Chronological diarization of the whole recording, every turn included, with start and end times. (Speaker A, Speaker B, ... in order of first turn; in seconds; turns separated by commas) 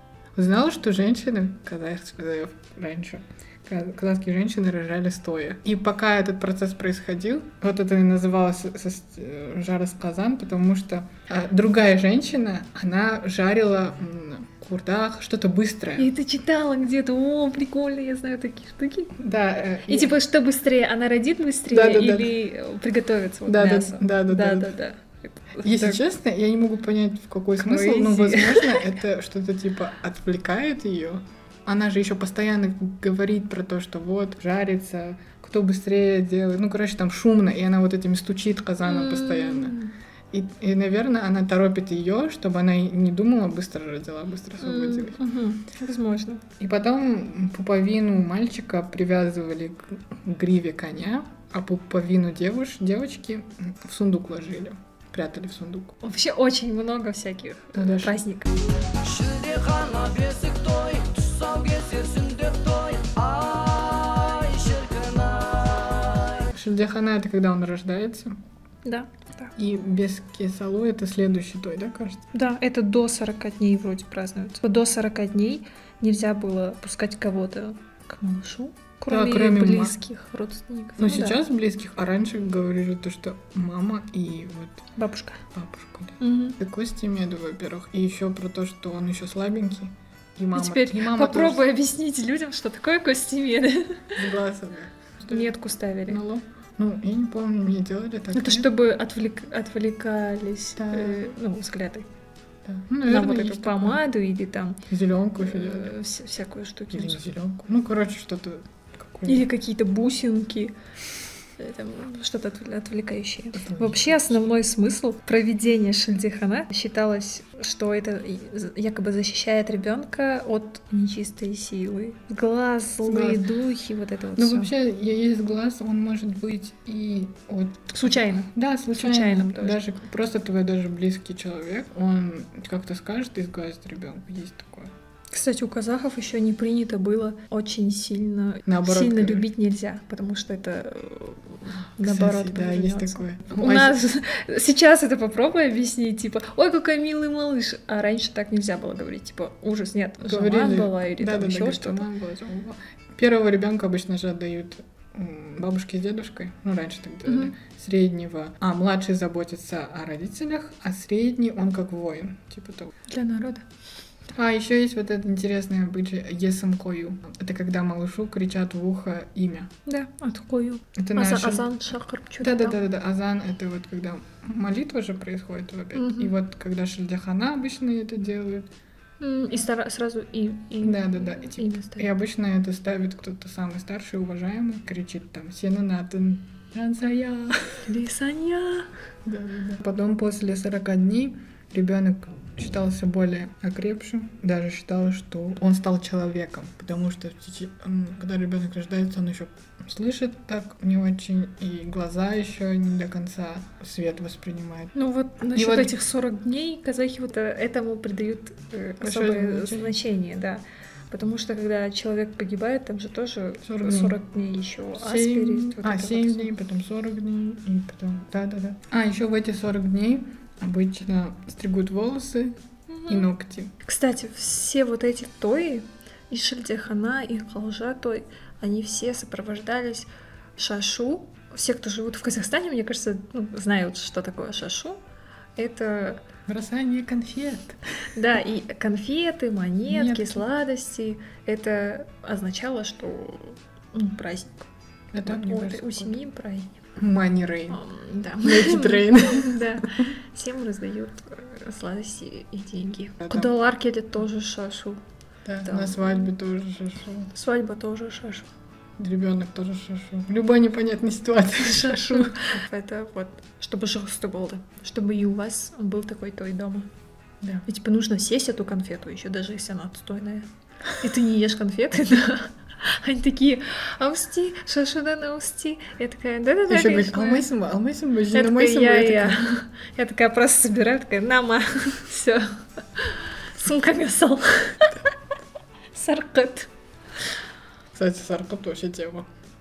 Speaker A: 0.4-16.1, Speaker B: 16.0-19.2, Speaker A: 19.1-20.2, Speaker B: 19.9-26.0, Speaker A: 21.7-22.4, Speaker A: 23.5-24.8, Speaker A: 25.6-39.8, Speaker B: 27.6-28.9, Speaker B: 38.8-39.9, Speaker A: 40.3-45.2, Speaker B: 44.6-46.5, Speaker A: 46.6-56.0, Speaker B: 56.0-58.6, Speaker A: 57.8-58.2, Speaker C: 59.1-66.2, Speaker A: 66.5-68.3, Speaker B: 68.8-69.6, Speaker A: 69.6-72.2, Speaker B: 72.3-81.4, Speaker A: 79.1-80.0, Speaker A: 81.0-84.9, Speaker B: 84.9-85.5, Speaker A: 85.5-91.7, Speaker B: 86.2-86.6, Speaker B: 90.5-94.3, Speaker A: 94.2-95.6, Speaker B: 95.3-96.2, Speaker A: 96.1-98.7, Speaker B: 98.3-102.1, Speaker A: 100.8-101.3, Speaker A: 102.7-104.0, Speaker B: 103.1-107.2, Speaker A: 104.9-106.0, Speaker A: 106.9-109.5, Speaker B: 109.3-110.8, Speaker B: 111.5-124.7, Speaker A: 113.5-114.6, Speaker A: 123.0-123.5, Speaker A: 124.4-134.9, Speaker B: 127.9-129.9, Speaker B: 135.3-152.1, Speaker A: 138.7-139.5, Speaker A: 142.0-144.1, Speaker A: 150.2-163.0, Speaker B: 157.2-157.6, Speaker B: 163.1-163.7, Speaker A: 164.3-169.7, Speaker B: 169.8-172.8, Speaker A: 171.0-171.8, Speaker A: 172.4-178.7, Speaker B: 175.9-176.4, Speaker B: 179.2-182.1, Speaker A: 180.8-187.8, Speaker B: 187.8-188.9, Speaker A: 189.2-204.9, Speaker B: 204.9-216.5, Speaker A: 205.5-206.0, Speaker A: 209.0-210.0, Speaker A: 213.6-214.2, Speaker A: 214.9-223.7, Speaker B: 222.9-223.3, Speaker B: 223.8-235.0, Speaker B: 235.6-236.3, Speaker A: 236.5-237.8, Speaker B: 238.2-244.7, Speaker A: 239.9-240.5, Speaker A: 245.1-246.2, Speaker B: 245.2-246.8, Speaker A: 247.0-247.8, Speaker B: 247.7-255.0, Speaker A: 248.4-250.0, Speaker A: 253.2-253.6, Speaker A: 255.5-257.3, Speaker B: 255.6-256.3, Speaker B: 257.3-258.5, Speaker A: 259.0-262.4, Speaker B: 261.6-266.9, Speaker B: 267.7-277.6, Speaker A: 276.7-279.5, Speaker B: 278.3-285.1, Speaker B: 285.9-286.7, Speaker A: 287.9-289.3